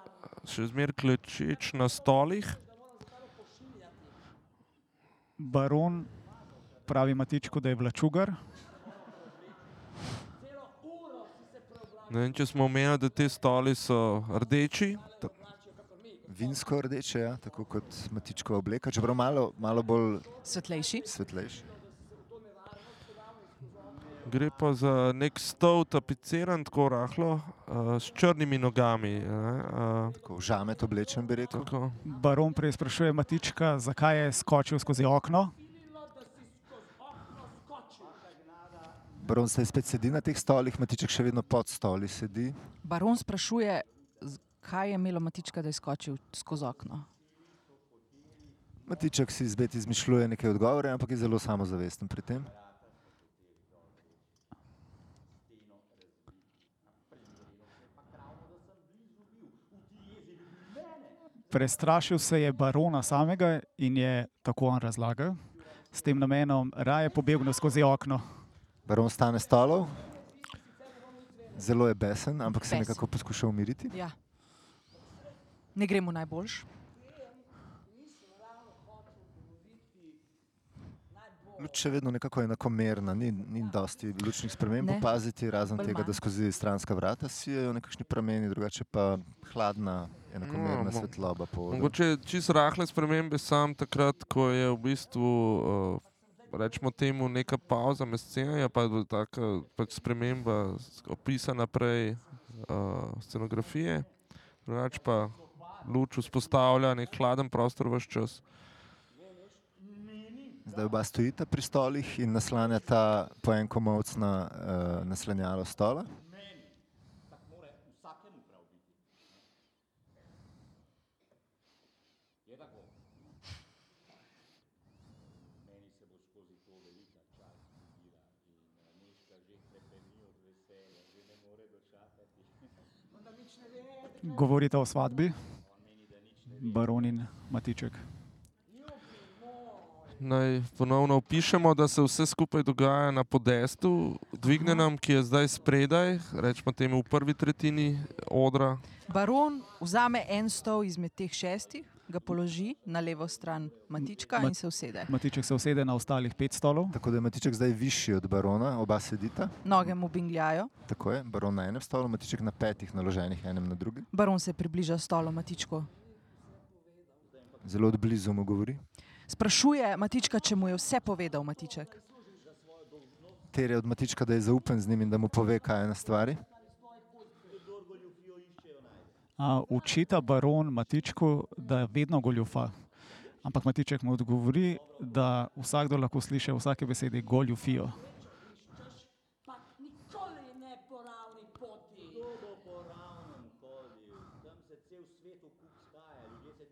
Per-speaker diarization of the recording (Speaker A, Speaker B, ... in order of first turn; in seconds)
Speaker A: 0.4-2.6, 12.1-15.1, 24.2-30.2, 31.5-32.0, 90.4-91.1, 91.7-104.1, 104.7-108.4, 140.2-148.8
Speaker B: 5.4-6.1, 6.8-8.4, 32.0-35.5, 61.5-68.2, 134.2-135.3, 136.5-138.1, 155.1-157.0, 179.4-182.8, 183.4-188.0
Speaker C: 16.2-20.4, 21.0-21.7, 30.2-31.7, 39.2-42.6, 48.8-52.5, 68.9-70.1, 71.5-74.0, 81.6-92.0, 110.6-116.1, 156.9-159.9, 160.8-164.1, 167.6-168.8, 173.5-176.4
Speaker D: 20.4-21.1, 42.8-47.0, 72.5-73.0, 73.9-74.2, 75.7-76.7, 84.8-85.2, 85.7-86.2, 144.5-144.9, 149.1-155.1, 159.6-160.7, 164.1-165.9, 169.3-172.0
Speaker E: 188.7-189.0, 189.8-192.2